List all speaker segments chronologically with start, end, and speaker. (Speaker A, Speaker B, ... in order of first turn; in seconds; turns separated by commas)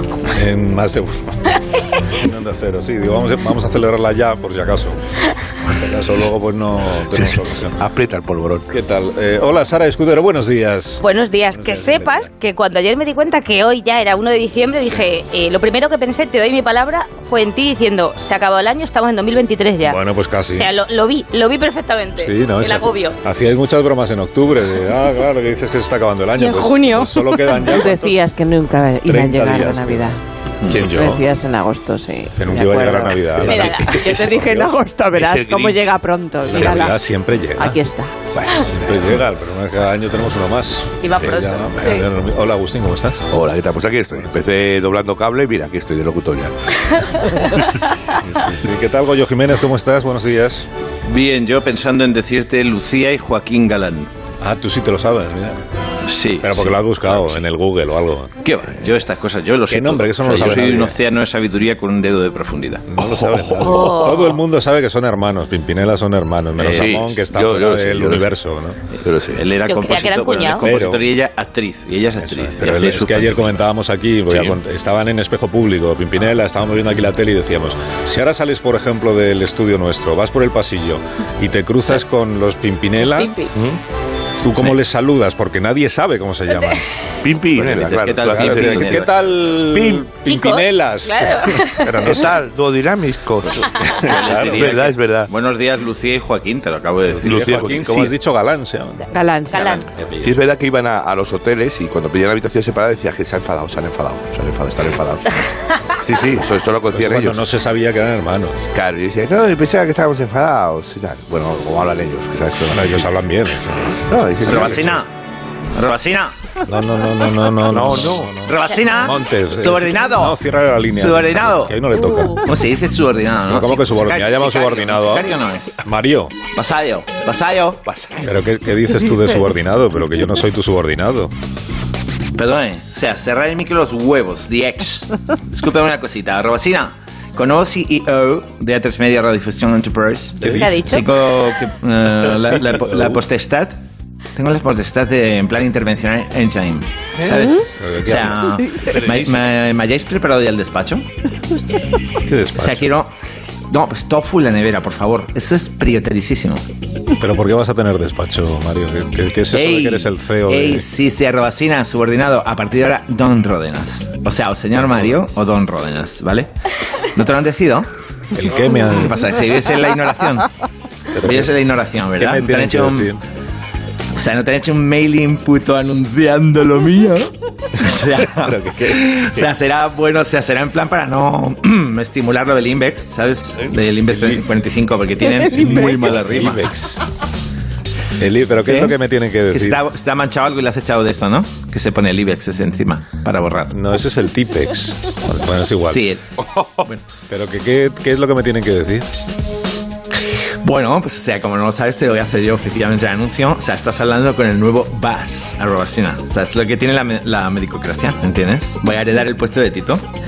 Speaker A: 0.3-1.4, Speaker A: 2.1-5.0, Speaker A: 5.7-7.8, Speaker B: 7.1-8.7, Speaker A: 8.7-12.3, Speaker C: 11.0-20.0, Speaker A: 19.8-20.7, Speaker C: 20.5-23.2, Speaker A: 22.2-28.2, Speaker C: 26.4-27.7, Speaker D: 27.7-30.2, Speaker A: 29.0-30.1, Speaker A: 30.7-31.2, Speaker D: 30.8-33.3, Speaker A: 32.4-34.7, Speaker C: 33.4-34.0, Speaker B: 33.8-35.9, Speaker D: 33.9-37.0, Speaker A: 36.4-37.8, Speaker D: 37.6-38.1, Speaker B: 38.3-39.0, Speaker A: 38.5-43.3, Speaker C: 41.0-42.0, Speaker B: 43.3-46.5, Speaker A: 48.1-50.7, Speaker E: 51.0-54.1, Speaker A: 54.4-55.6, Speaker E: 56.0-57.4, Speaker A: 56.4-58.3, Speaker E: 58.4-63.7, Speaker A: 59.7-61.0, Speaker A: 62.9-68.8, Speaker C: 63.6-64.3, Speaker E: 66.6-66.9, Speaker B: 66.7-68.3, Speaker B: 69.0-69.4, Speaker E: 69.3-73.7, Speaker C: 69.7-70.6, Speaker A: 70.6-71.0, Speaker A: 72.2-83.4, Speaker B: 74.3-74.5, Speaker C: 83.0-83.5, Speaker A: 84.4-86.8, Speaker C: 86.5-86.8, Speaker B: 87.2-89.0, Speaker E: 87.6-89.1, Speaker A: 88.3-92.3, Speaker B: 89.7-90.1, Speaker C: 90.2-92.1, Speaker B: 92.1-93.7, Speaker E: 93.4-97.9, Speaker A: 94.0-94.7, Speaker B: 94.3-95.3, Speaker A: 97.1-99.0, Speaker B: 97.2-98.1, Speaker D: 99.1-99.8, Speaker C: 99.5-99.9, Speaker E: 99.7-100.4, Speaker B: 100.2-105.3, Speaker B: 106.0-107.4, Speaker A: 106.9-108.6, Speaker B: 108.7-113.1, Speaker A: 112.7-115.0, Speaker B: 114.0-115.0, Speaker E: 114.4-115.1, Speaker E: 115.7-116.3, Speaker A: 116.7-122.4, Speaker B: 117.7-118.3, Speaker E: 117.8-121.8, Speaker E: 122.4-125.8, Speaker A: 123.5-125.3, Speaker A: 125.8-126.3, Speaker E: 126.5-127.8, Speaker B: 127.8-128.2, Speaker A: 128.2-131.3, Speaker E: 132.3-143.8, Speaker A: 140.4-140.8, Speaker C: 140.5-141.1, Speaker A: 142.6-143.2, Speaker E: 144.3-151.1, Speaker A: 147.8-148.5, Speaker B: 149.0-149.3, Speaker A: 152.2-152.9, Speaker E: 152.6-153.1, Speaker E: 153.7-156.6, Speaker A: 157.2-160.8, Speaker E: 159.5-166.5, Speaker A: 164.9-165.1, Speaker E: 167.1-167.9, Speaker A: 168.3-169.1, Speaker E: 168.7-170.5, Speaker A: 171.1-171.5, Speaker E: 171.2-173.1, Speaker A: 172.2-173.2, Speaker E: 174.1-186.6, Speaker A: 178.2-179.4, Speaker A: 184.1-184.4, Speaker A: 185.5-187.0, Speaker A: 188.2-189.8, Speaker E: 188.6-189.0, Speaker E: 189.5-193.8, Speaker A: 193.7-196.1, Speaker E: 195.9-196.2, Speaker B: 196.4-196.9, Speaker A: 197.3-199.1, Speaker E: 200.6-210.0